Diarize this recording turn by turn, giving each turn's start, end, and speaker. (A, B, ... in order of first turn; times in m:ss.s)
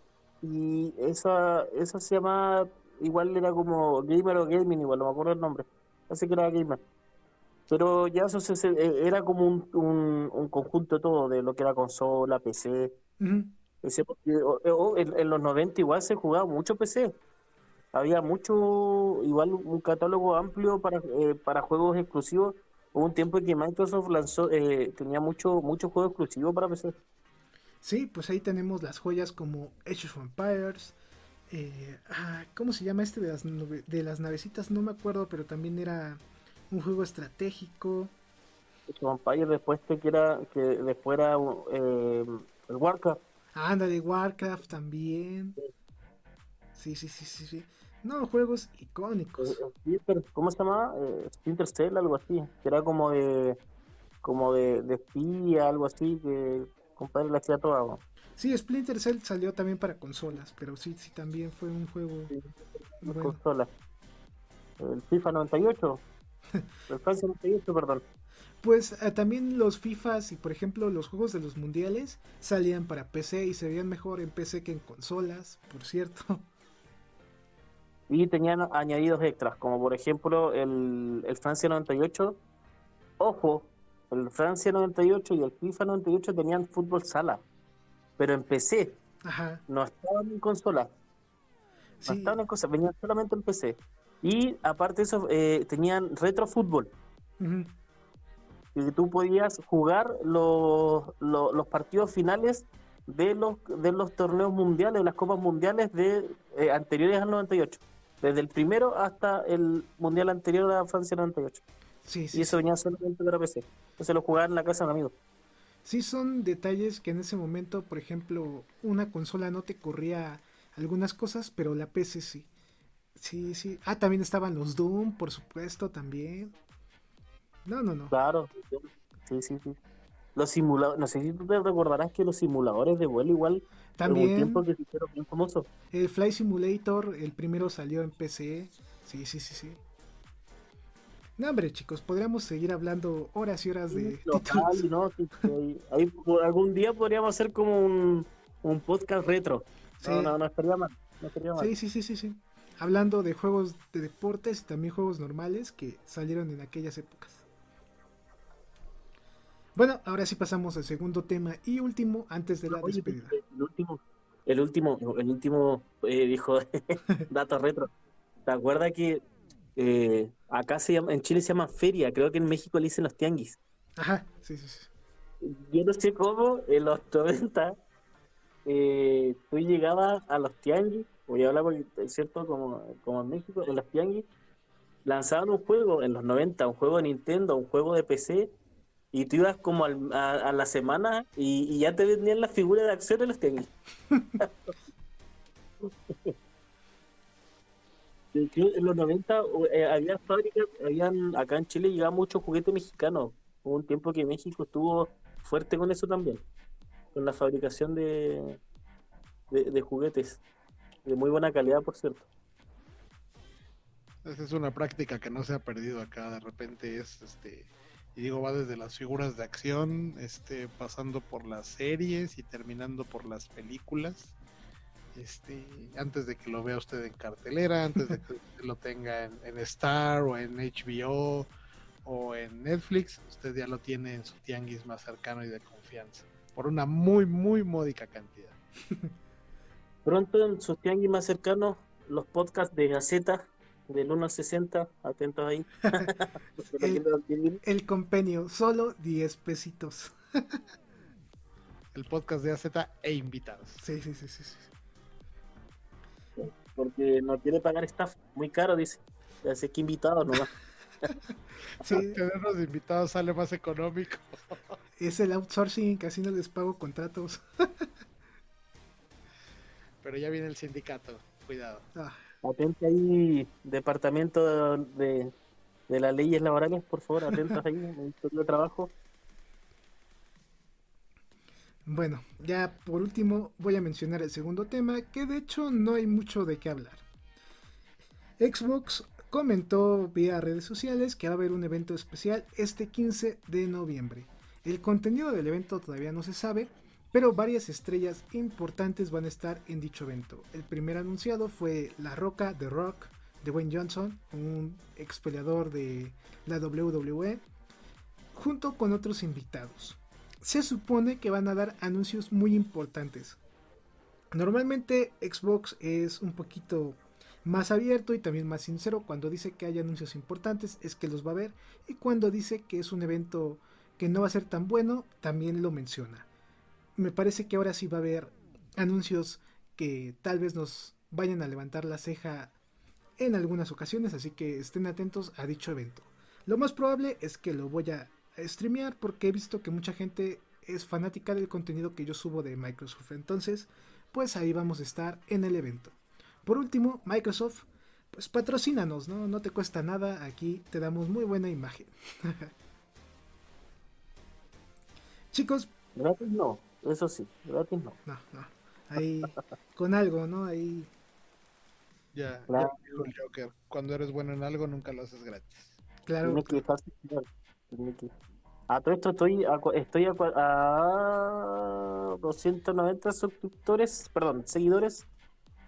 0:00.4-0:06.8 A
0:07.7-0:12.9 A
0:13.2-0:13.5 B
0:13.8-0:17.2 A
0:17.9-0:27.0 A
0:27.8-0:31.0 B
0:31.5-0:38.1 B
0:38.9-0:43.2 A
0:43.5-0:45.6 B
0:46.8-0:49.6 B
0:49.4-0:53.6 A
0:54.2-0:58.0 A
0:58.4-1:02.3 B
1:02.3-1:03.7 A
1:03.0-1:03.4 B
1:04.8-1:06.0 A
1:06.9-1:08.0 A
1:08.6-1:16.5 B
1:18.1-1:22.4 A
1:23.2-1:27.4 A
1:28.2-1:29.0 A
1:29.2-1:29.6 B
1:29.7-1:30.9 A
1:32.0-1:32.4 B
1:32.1-1:36.9 A
1:37.4-1:37.7 B
1:38.7-1:51.6 A
1:52.0-1:52.6 B
1:52.3-1:55.2 A
1:55.8-2:02.5 B
2:03.2-2:06.6 B
2:07.6-2:08.2 B
2:08.1-2:09.8 A
2:10.4-2:15.7 A
2:14.0-2:14.6 B
2:15.9-2:19.8 B
2:21.4-2:24.8 B
2:23.9-2:31.7 A
2:30.0-2:30.4 B
2:31.6-2:37.4 B
2:39.7-2:43.4 B
2:42.7-2:47.9 A
2:48.4-2:49.2 A
2:49.8-2:53.6 A
2:54.0-2:54.9 B
2:55.4-2:57.8 A
2:58.6-3:04.3 A
3:05.0-3:08.5 A
3:09.1-3:13.7 A
3:14.1-3:14.4 B
3:14.4-3:14.7 A
3:15.8-3:16.4 A
3:18.3-3:26.4 A
3:27.1-3:28.6 A
3:29.5-3:30.4 A
3:31.1-3:32.3 A
3:34.2-3:44.4 C
3:45.2-3:51.5 C
3:52.0-3:58.6 C
4:00.0-4:07.6 A
4:06.7-4:07.0 B
4:07.6-4:10.6 B
4:11.9-4:13.8 C
4:13.8-4:14.7 B
4:16.4-4:20.5 A
4:21.8-4:22.2 B
4:21.9-4:24.7 C
4:25.0-4:27.9 B
4:30.0-4:31.9 C
4:31.9-4:32.2 B
4:32.4-4:35.3 A
4:35.9-4:38.9 A
4:37.3-4:37.6 B
4:41.9-4:47.0 B
4:48.4-5:07.4 B
5:08.3-5:13.4 B
5:14.3-5:26.3 B
5:27.0-5:32.6 B
5:33.2-5:52.5 B
5:55.3-5:55.7 B
5:55.9-5:58.0 A
5:58.1-6:00.9 B
6:02.1-6:05.8 C
6:02.5-6:02.7 A
6:06.0-6:06.6 B
6:06.2-6:08.1 A
6:08.7-6:15.1 A